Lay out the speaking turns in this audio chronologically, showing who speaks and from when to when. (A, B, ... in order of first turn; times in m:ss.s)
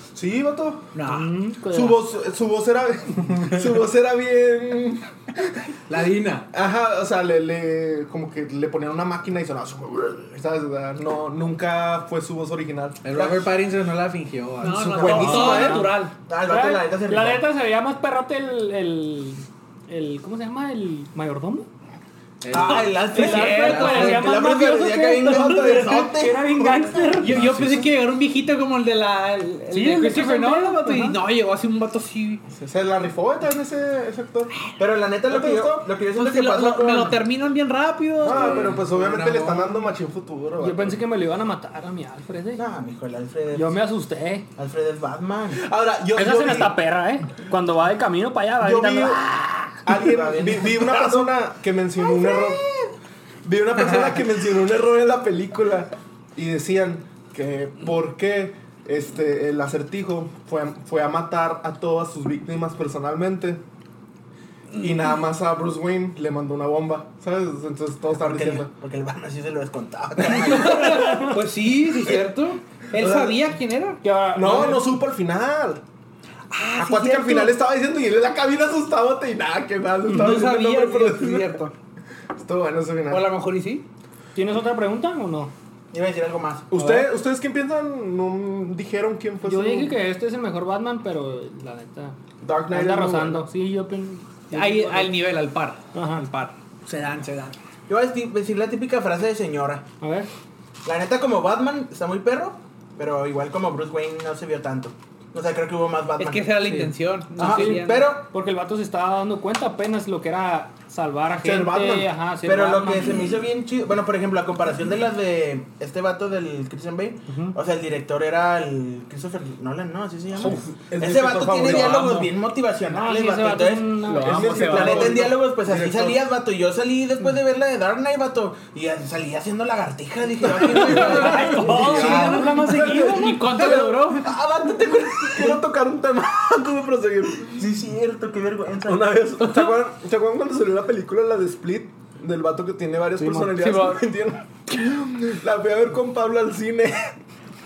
0:00.1-0:00.9 A
0:01.0-0:02.0 B
0:01.7-0:05.6 A
0:05.9-0:06.5 C
0:06.5-0:13.0 A
0:13.0-0:15.8 C
0:13.2-0:13.5 D
0:14.6-0:16.1 E
0:14.9-0:15.8 A
0:15.1-0:15.7 D
0:15.6-0:21.7 B
0:16.2-0:17.5 D
0:22.4-0:24.4 C
0:22.5-0:27.1 D
0:22.5-0:24.4 E
0:23.1-0:27.4 B
0:27.2-0:32.4 E
0:27.3-0:27.9 C
0:29.7-0:31.2 B
0:32.5-0:34.5 A
0:34.8-0:37.2 D
0:35.3-0:35.8 A
0:36.1-0:38.8 E
0:38.2-0:41.0 A
0:38.3-0:39.8 C
0:40.6-0:42.6 B
0:42.6-0:43.8 D
0:43.5-0:44.4 B
0:44.6-0:45.6 D
0:45.5-0:46.8 A
0:46.1-0:49.3 B
0:48.6-0:52.6 A
0:49.9-0:51.3 D
0:52.0-0:52.9 D
0:53.4-1:03.6 A
1:04.7-1:08.7 A
1:08.2-1:11.2 D
1:10.3-1:14.0 E
1:10.8-1:11.3 B
1:12.9-1:13.4 A
1:14.0-1:14.9 B
1:14.3-1:15.8 A
1:16.5-1:17.5 E
1:16.7-1:21.6 A
1:20.1-1:21.6 E
1:22.4-1:23.3 A
1:23.1-1:23.8 E
1:24.3-1:25.5 B
1:25.9-1:26.7 D
1:26.7-1:30.0 A
1:26.7-1:27.1 B
1:29.4-1:32.2 B
1:32.4-1:33.5 A
1:32.7-1:35.1 B
1:34.5-1:36.6 E
1:35.9-1:36.2 B
1:36.8-1:37.6 C
1:37.9-1:39.8 D
1:40.0-1:40.3 B
1:40.8-1:46.6 D
1:46.2-1:48.1 E
1:46.6-1:46.9 C
1:47.4-1:48.3 D
1:47.4-1:53.2 B
1:51.4-1:52.1 A
1:52.4-2:11.7 D
1:57.3-1:57.6 B
2:00.4-2:02.3 A
2:02.9-2:05.2 B
2:04.1-2:05.3 E
2:04.2-2:06.2 A
2:10.6-2:17.7 A
2:10.6-2:13.4 B
2:10.7-2:11.4 E
2:11.1-2:12.5 C
2:12.0-2:12.3 E
2:12.9-2:14.3 E
2:13.7-2:15.6 D
2:17.6-2:19.2 D
2:18.8-2:27.2 A
2:19.4-2:19.7 E
2:23.2-2:23.7 B
2:23.6-2:24.0 E